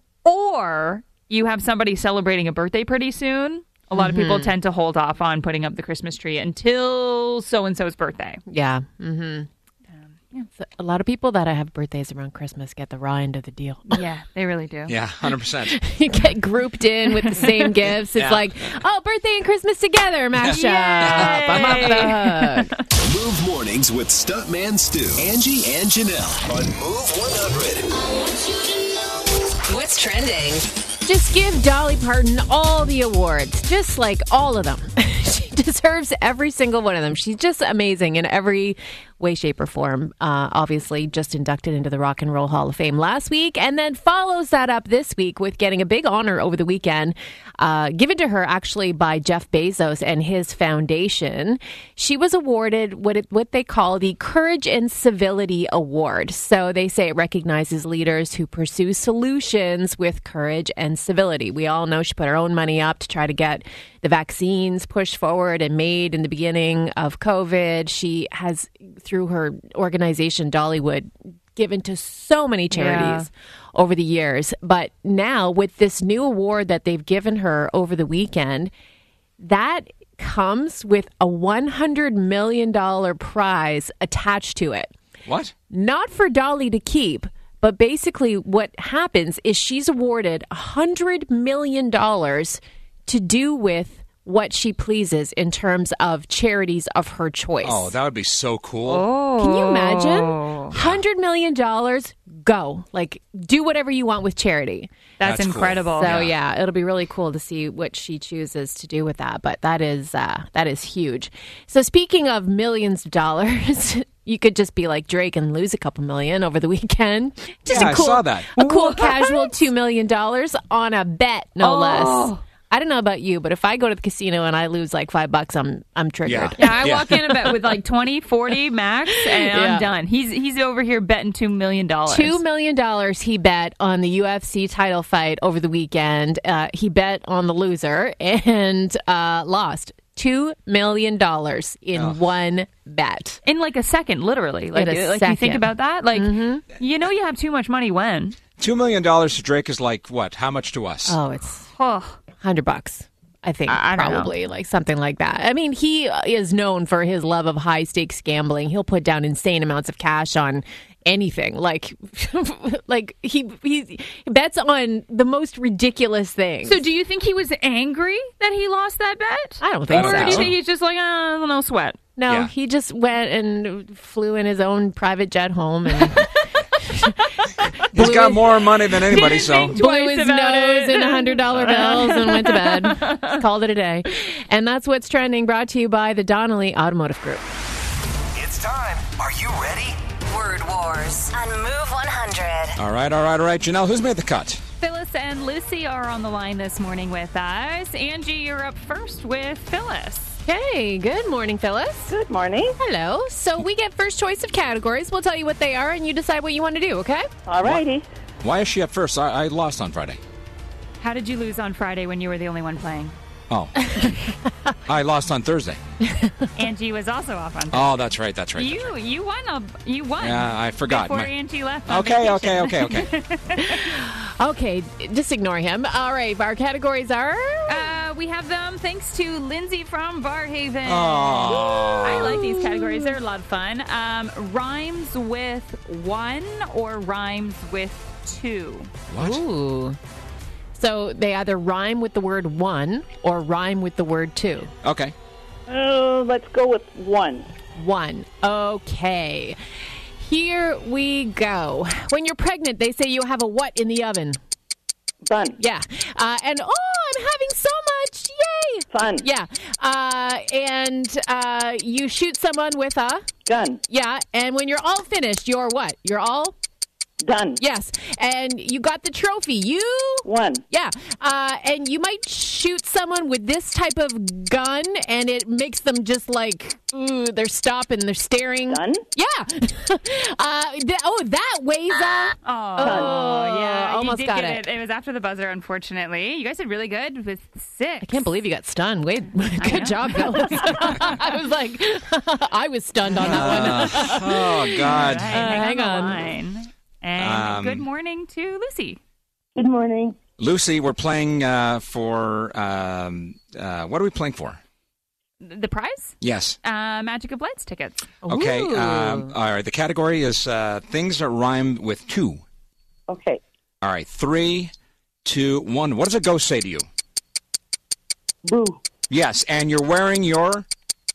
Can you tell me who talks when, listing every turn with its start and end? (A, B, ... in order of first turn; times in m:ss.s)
0:00.2-0:08.4 A
0:03.9-0:04.5 B
0:08.5-0:09.5 B
0:10.0-0:10.5 A
0:10.6-0:14.0 B
0:13.9-0:15.0 A
0:14.9-0:15.8 C
0:15.6-0:22.7 B
0:18.1-0:18.4 C
0:20.4-0:22.1 C
0:20.6-0:22.8 A
0:22.9-0:27.9 D
0:28.1-0:28.9 E
0:29.6-0:30.7 E
0:31.0-1:18.7 B
1:12.7-1:13.3 A
1:19.4-1:24.9 B
1:25.2-1:25.5 C
1:25.7-1:37.9 B
1:37.6-1:39.0 C
1:38.8-1:40.7 A
1:39.4-1:44.9 B
1:40.7-1:41.0 C
1:45.2-1:46.1 A
1:45.2-1:46.3 C
1:45.9-2:06.8 B
1:57.7-1:58.5 C
1:58.6-1:59.5 A
2:01.6-2:02.4 A
2:06.2-2:07.2 C
2:06.6-2:12.4 A
2:09.2-2:09.9 B
2:12.1-2:23.4 B
2:23.4-2:28.4 A
2:24.7-2:26.6 B
2:28.6-2:31.2 C
2:31.0-2:31.7 B
2:31.7-2:32.2 A
2:32.4-2:46.8 B
2:33.7-2:34.3 A
2:46.6-2:52.0 A
2:49.6-2:50.5 B
2:49.9-2:50.5 C
2:52.2-3:07.4 B
2:57.9-2:59.8 C
2:59.1-3:03.4 A
3:08.3-3:10.0 D
3:10.3-3:12.8 E
3:12.8-3:14.6 C
3:14.8-3:20.4 A
3:20.4-3:22.1 B
3:22.1-3:22.8 F
3:22.8-3:27.3 B
3:27.5-3:28.0 F
3:28.4-3:30.2 C
3:31.0-3:33.2 A
3:33.5-3:34.2 C
3:34.9-3:35.8 C
3:36.0-3:36.3 B
3:36.6-3:38.0 A
3:37.7-3:38.9 C
3:38.5-3:43.9 A
3:40.2-3:41.3 C
3:41.9-3:43.1 C
3:43.6-3:47.9 B
3:47.7-3:58.9 A
3:50.8-3:52.4 C
3:51.5-3:53.1 B
3:59.1-3:59.4 C
3:59.2-4:00.0 B
4:00.7-4:04.7 B
4:04.8-4:05.1 C
4:05.7-4:07.5 F
4:07.8-4:09.6 B
4:10.2-4:14.4 B
4:15.2-4:15.6 F
4:15.6-4:23.2 B
4:18.9-4:19.2 F
4:23.4-4:23.8 F
4:23.9-4:26.5 B
4:27.2-4:27.6 F
4:27.6-4:44.6 B
4:30.2-4:30.6 F
4:38.7-4:39.0 F
4:42.4-4:48.2 A
4:42.8-4:43.1 F
4:48.0-4:56.2 B
4:49.6-4:51.2 A
4:53.2-4:55.4 C
4:53.4-4:54.2 A
4:54.8-4:59.0 A
4:57.2-4:57.8 C
4:59.6-5:00.2 F
5:00.4-5:04.6 C
5:05.4-5:08.0 A
5:06.2-5:06.6 C
5:08.2-5:09.3 B
5:08.2-5:12.4 C
5:13.1-5:13.4 F
5:13.8-5:14.7 C
5:15.2-5:16.8 C
5:18.4-5:18.8 F
5:19.1-5:20.6 C